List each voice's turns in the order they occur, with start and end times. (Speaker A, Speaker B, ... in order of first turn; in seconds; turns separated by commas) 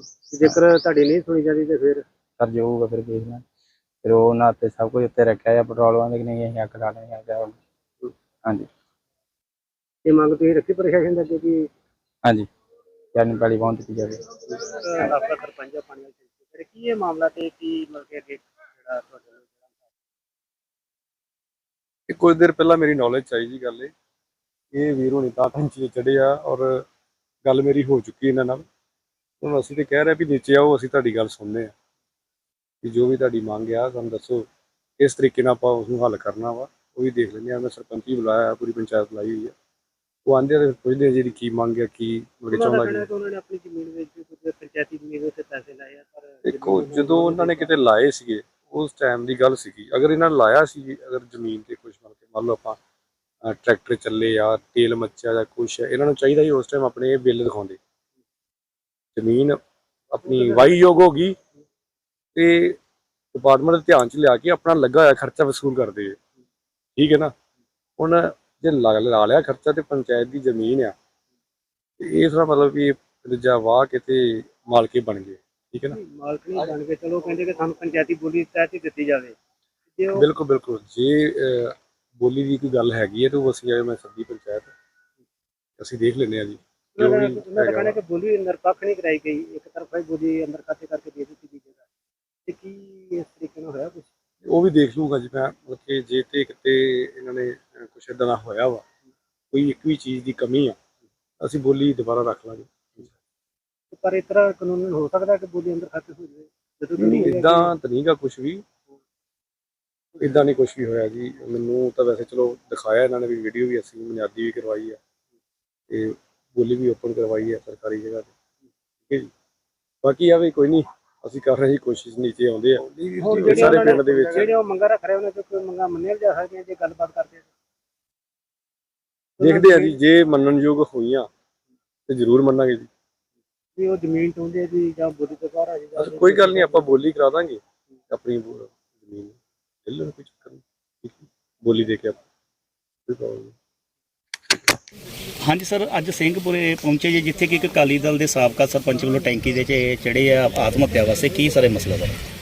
Speaker A: 0.3-2.0, Speaker B: 2.4-3.4, Speaker B: 4.0-7.5, Speaker A: 10.0-11.7, Speaker B: 13.1-14.2, Speaker A: 14.5-19.5, Speaker C: 22.1-23.9, Speaker C: 24.7-26.8, Speaker C: 27.4-28.6, Speaker C: 29.4-31.7, Speaker C: 32.8-34.5, Speaker C: 35.0-39.5, Speaker C: 40.2-43.1, Speaker A: 42.5-47.8, Speaker C: 46.5-52.8, Speaker C: 53.4-57.8, Speaker C: 59.1-59.6, Speaker C: 60.1-61.4, Speaker A: 60.3-60.8, Speaker C: 62.4-62.8, Speaker C: 63.3-66.2, Speaker C: 67.0-67.3, Speaker C: 68.0-70.9, Speaker C: 72.0-76.0, Speaker A: 75.9-79.3, Speaker A: 80.0-80.3, Speaker C: 80.2-84.7, Speaker C: 85.8-88.0, Speaker A: 87.0-91.8, Speaker A: 92.5-94.1, Speaker C: 94.5-98.8, Speaker C: 99.5-100.8, Speaker C: 101.4-103.1, Speaker A: 103.9-107.7, Speaker C: 107.0-108.6, Speaker C: 110.2-115.0, Speaker C: 115.9-118.3, Speaker C: 120.0-124.5, Speaker A: 123.2-127.5, Speaker A: 129.4-130.0, Speaker C: 129.4-131.3, Speaker C: 132.1-132.9, Speaker A: 133.8-137.0, Speaker C: 136.0-142.2, Speaker C: 143.1-143.5, Speaker D: 145.4-152.2